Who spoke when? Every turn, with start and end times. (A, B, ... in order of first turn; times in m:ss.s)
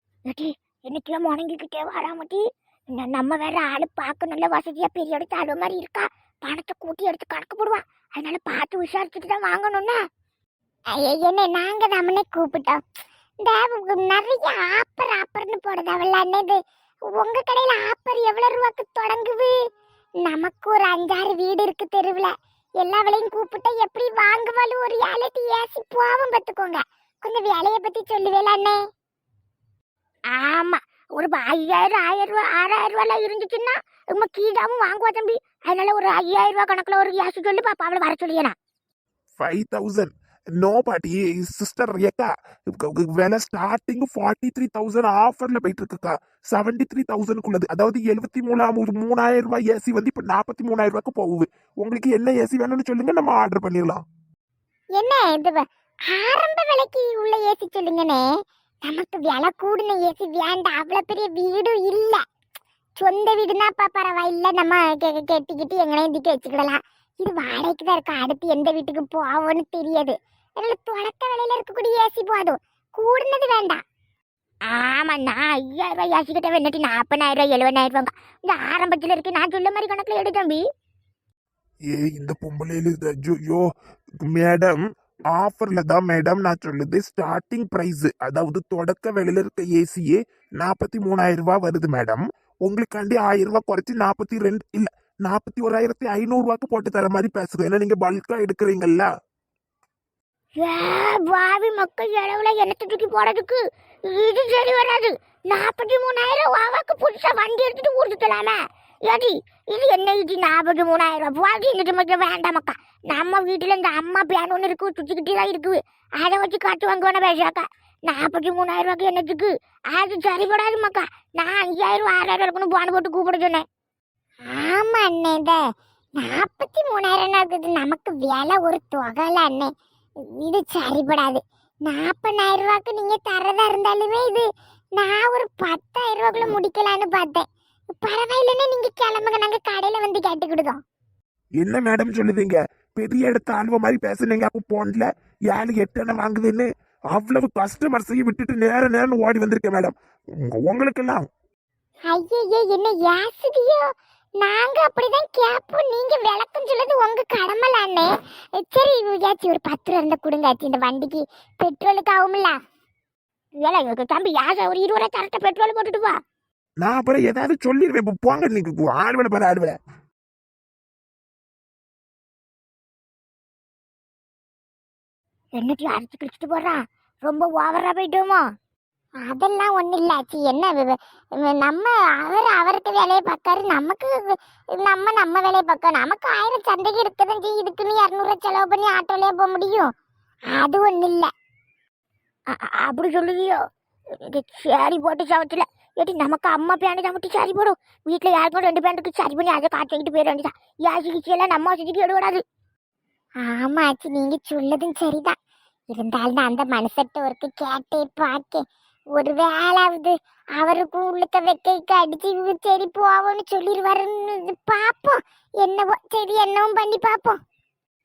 0:00.3-0:10.0 A
0:10.9-0:12.8 B
0:13.4-0:16.6 B
0:17.1-0:19.5 B
0:20.2-0:28.8 B
0:30.3-0:38.6 A
0:39.4-0:54.0 C
0:55.0-0:58.2 B
0:58.8-1:02.2 B
1:03.0-1:13.8 B
1:14.7-1:20.6 A
1:21.9-1:23.7 C
1:24.2-1:24.8 C
1:25.3-1:39.1 C
1:40.6-2:03.6 A
2:04.5-2:05.6 B
2:06.2-2:09.7 B
2:10.4-2:14.5 B
2:15.0-2:20.8 B
2:21.6-2:31.3 C
2:32.1-2:33.8 B
2:34.4-2:42.6 B
2:43.6-2:46.2 A
2:46.8-2:49.8 C
2:55.6-2:58.4 A
2:59.2-3:09.9 B
3:10.5-3:11.3 B
3:12.5-3:13.6 A
3:14.2-3:22.4 A
3:23.4-3:25.4 B
3:25.9-3:28.6 B
3:29.2-3:37.4 B